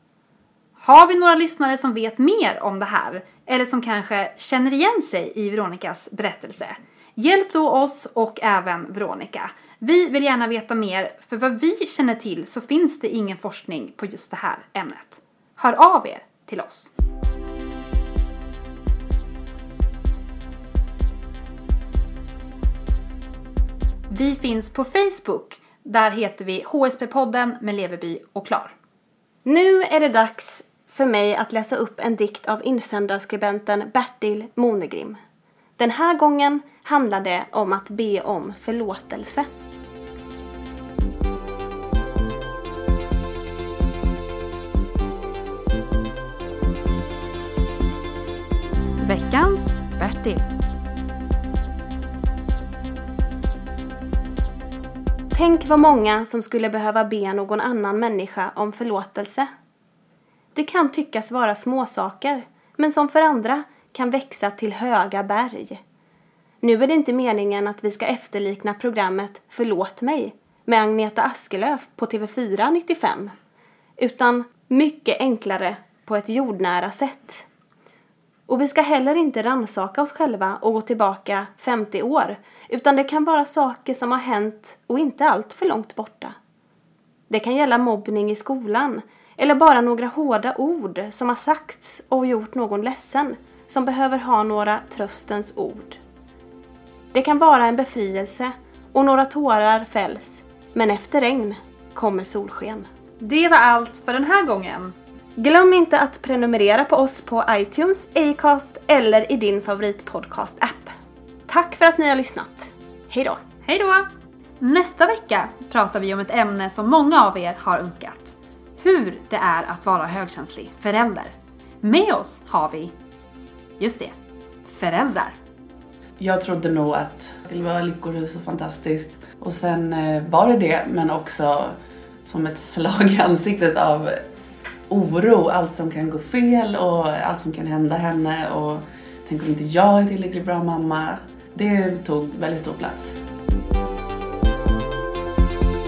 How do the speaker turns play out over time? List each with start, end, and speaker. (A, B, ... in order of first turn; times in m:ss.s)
0:00.8-0:16.9 A
0:24.1-0:28.7 A
0:29.4-0:35.2 B
0:35.8-0:39.4 B
0:49.0-0:50.4 A
0:55.3-0:59.5 B
1:00.6-1:05.8 B
1:06.6-1:13.3 B
1:14.0-1:17.5 B
1:18.5-1:26.3 B
1:27.3-1:36.0 B
1:37.1-1:42.9 B
1:43.2-1:44.9 A
1:45.4-1:50.9 B
1:51.5-1:53.4 B
1:53.7-1:54.0 A
1:54.6-2:02.9 A
2:03.8-2:04.1 A
2:04.7-2:05.4 A
2:06.2-2:11.8 C
2:12.3-2:14.2 C
2:14.9-2:23.1 C